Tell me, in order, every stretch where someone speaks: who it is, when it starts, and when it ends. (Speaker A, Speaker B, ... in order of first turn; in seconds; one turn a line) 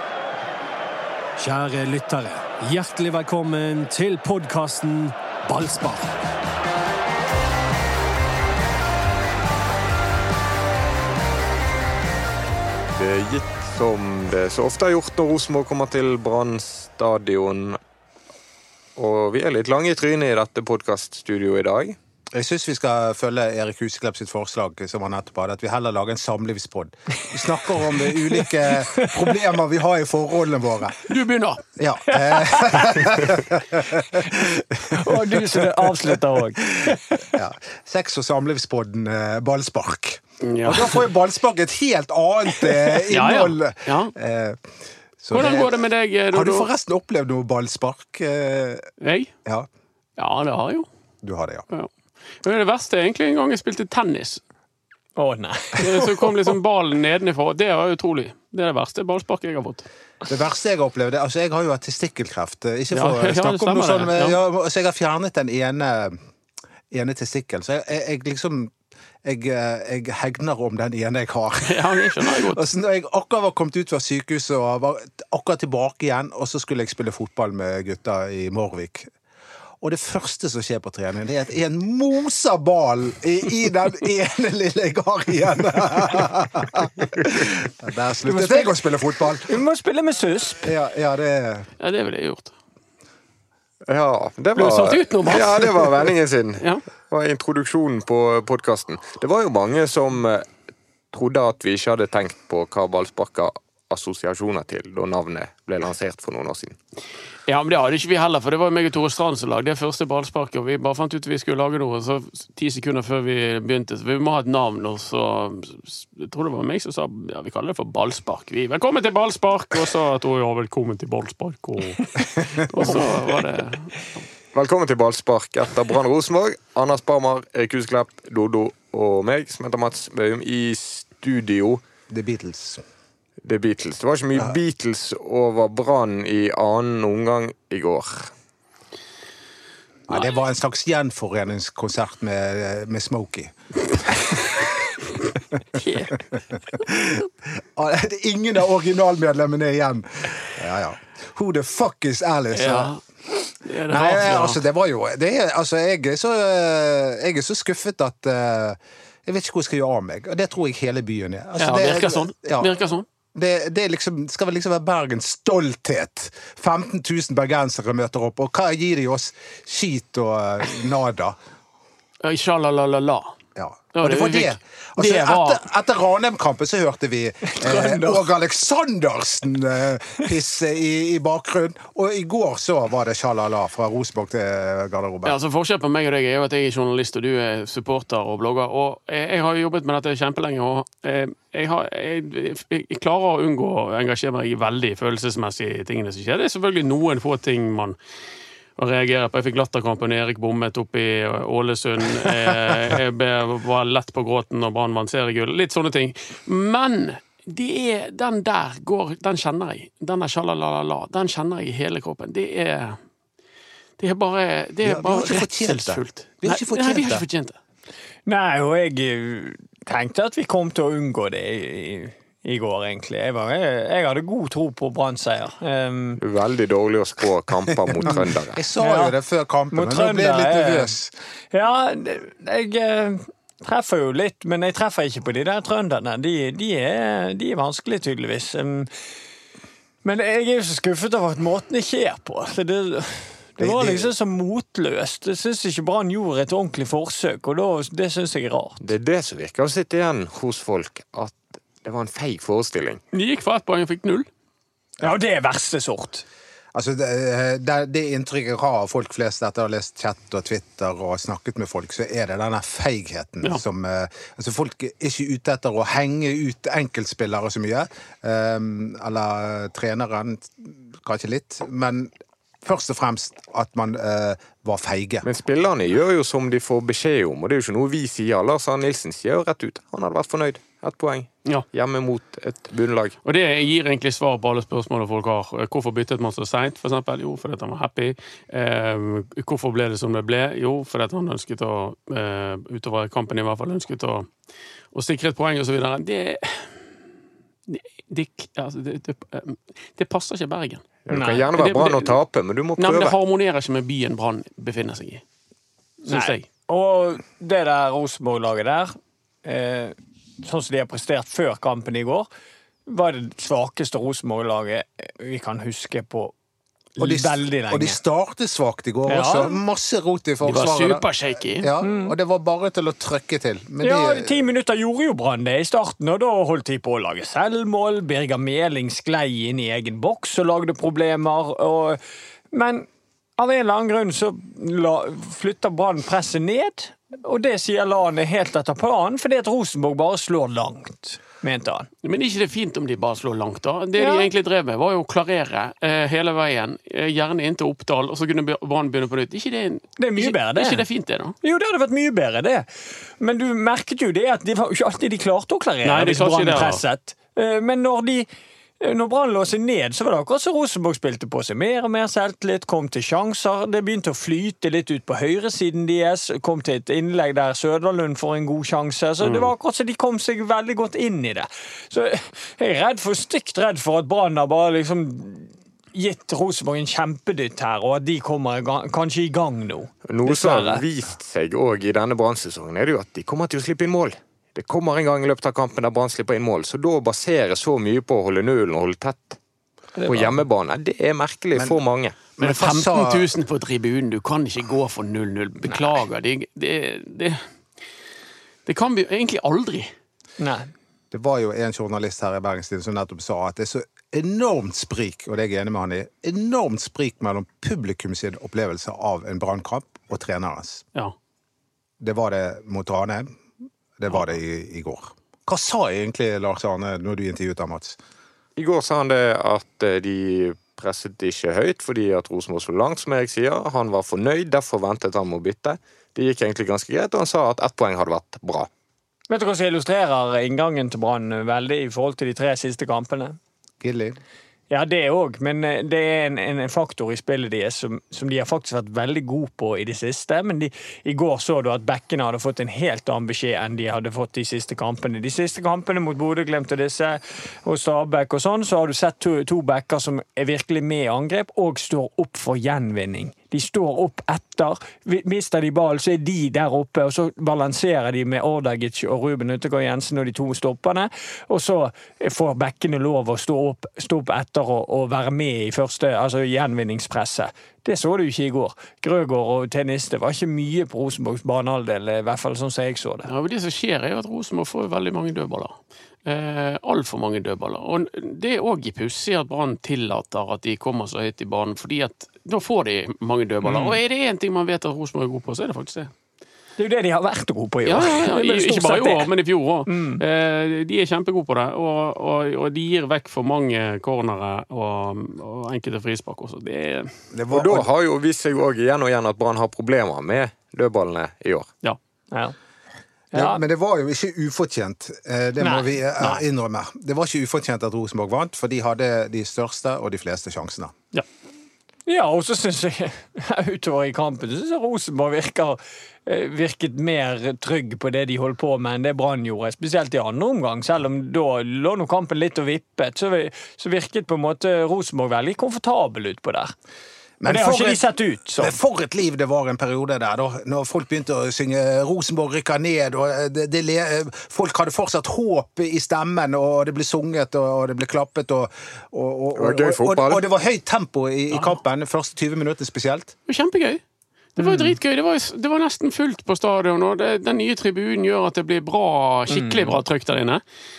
Speaker A: 1.4-6.1
Speaker B: 12.9-17.8
Speaker B: 18.9-22.0
Speaker C: 22.3-31.0
Speaker D: 27.9-29.3
Speaker E: 31.1-31.6
Speaker C: 31.8-36.2
Speaker D: 32.2-33.0
Speaker D: 35.0-37.2
Speaker C: 36.8-44.7
Speaker E: 40.4-41.1
Speaker E: 43.1-44.1
Speaker C: 45.2-45.8
Speaker E: 45.3-46.7
Speaker C: 46.3-48.9
Speaker E: 49.0-49.3
Speaker E: 50.2-50.9
Speaker C: 51.2-51.6
Speaker E: 52.4-54.4
Speaker D: 55.2-56.5
Speaker E: 55.8-59.9
Speaker C: 60.3-66.2
Speaker E: 62.9-64.4
Speaker C: 66.9-79.1
Speaker E: 71.6-72.6
Speaker C: 79.8-89.6
Speaker D: 88.2-88.8
Speaker D: 89.4-90.6
Speaker C: 90.6-91.7
Speaker E: 91.8-92.5
Speaker B: 93.9-100.5
Speaker E: 94.6-96.8
Speaker B: 101.1-106.8
Speaker E: 107.5-124.2
Speaker D: 122.0-123.2
Speaker B: 124.5-131.8
Speaker C: 132.1-132.8
Speaker B: 133.4-138.3
Speaker C: 140.1-144.3
Speaker E: 145.8-146.1
Speaker C: 146.7-152.9
Speaker E: 152.5-154.6
Speaker C: 153.9-162.7
Speaker E: 161.6-163.0
Speaker C: 163.3-171.3
Speaker E: 172.2-173.3
Speaker C: 173.6-185.3
Speaker E: 173.9-175.6
Speaker D: 177.5-178.2
Speaker E: 185.2-198.0
Speaker E: 198.8-213.0
Speaker E: 214.0-217.6
Speaker C: 214.8-217.2
Speaker D: 218.2-226.2
Speaker B: 226.2-228.6
Speaker C: 228.5-231.1
Speaker D: 228.8-229.1
Speaker D: 229.7-230.9
Speaker D: 231.5-238.9
Speaker D: 240.0-248.8
Speaker C: 243.6-244.1
Speaker B: 248.8-253.0
Speaker E: 253.1-254.3
Speaker D: 255.0-256.2
Speaker C: 256.7-275.3
Speaker B: 275.2-283.1
Speaker E: 283.2-294.3
Speaker E: 294.9-296.8
Speaker E: 297.7-300.9
Speaker B: 301.1-303.1
Speaker D: 301.1-301.4
Speaker E: 301.5-302.2
Speaker E: 302.8-305.2
Speaker D: 306.1-312.3
Speaker E: 306.1-306.4
Speaker D: 312.9-316.3
Speaker D: 317.0-318.0
Speaker C: 317.0-324.4
Speaker D: 319.1-319.5
Speaker E: 320.4-321.7
Speaker D: 321.8-322.1
Speaker D: 323.8-332.0
Speaker D: 332.5-332.9
Speaker D: 333.4-341.9
Speaker E: 342.0-351.4
Speaker D: 344.0-344.3
Speaker D: 350.0-350.8
Speaker D: 351.4-352.7
Speaker D: 353.2-358.3
Speaker E: 355.8-356.8
Speaker D: 358.8-380.8
Speaker B: 380.1-389.4
Speaker D: 390.0-390.4
Speaker B: 390.0-392.3
Speaker C: 392.4-393.3
Speaker E: 392.4-397.4
Speaker D: 395.7-395.9
Speaker E: 398.6-399.9
Speaker D: 400.4-400.7
Speaker C: 401.1-410.8
Speaker C: 412.0-413.4
Speaker C: 414.0-418.0
Speaker B: 418.6-428.7
Speaker D: 429.3-433.4
Speaker C: 433.8-434.2
Speaker D: 434.7-473.3
Speaker E: 473.3-486.1
Speaker D: 483.6-484.0
Speaker D: 486.8-489.3
Speaker E: 487.8-497.1
Speaker D: 489.9-490.2
Speaker C: 497.3-497.9
Speaker B: 497.5-501.7
Speaker D: 503.3-503.6
Speaker C: 503.3-510.9
Speaker D: 505.6-506.4
Speaker D: 512.1-526.7
Speaker C: 527.4-528.0
Speaker D: 527.5-528.8
Speaker C: 528.6-543.4
Speaker B: 539.6-540.4
Speaker E: 543.5-544.0
Speaker E: 544.6-550.6
Speaker D: 544.6-545.0
Speaker D: 549.5-550.0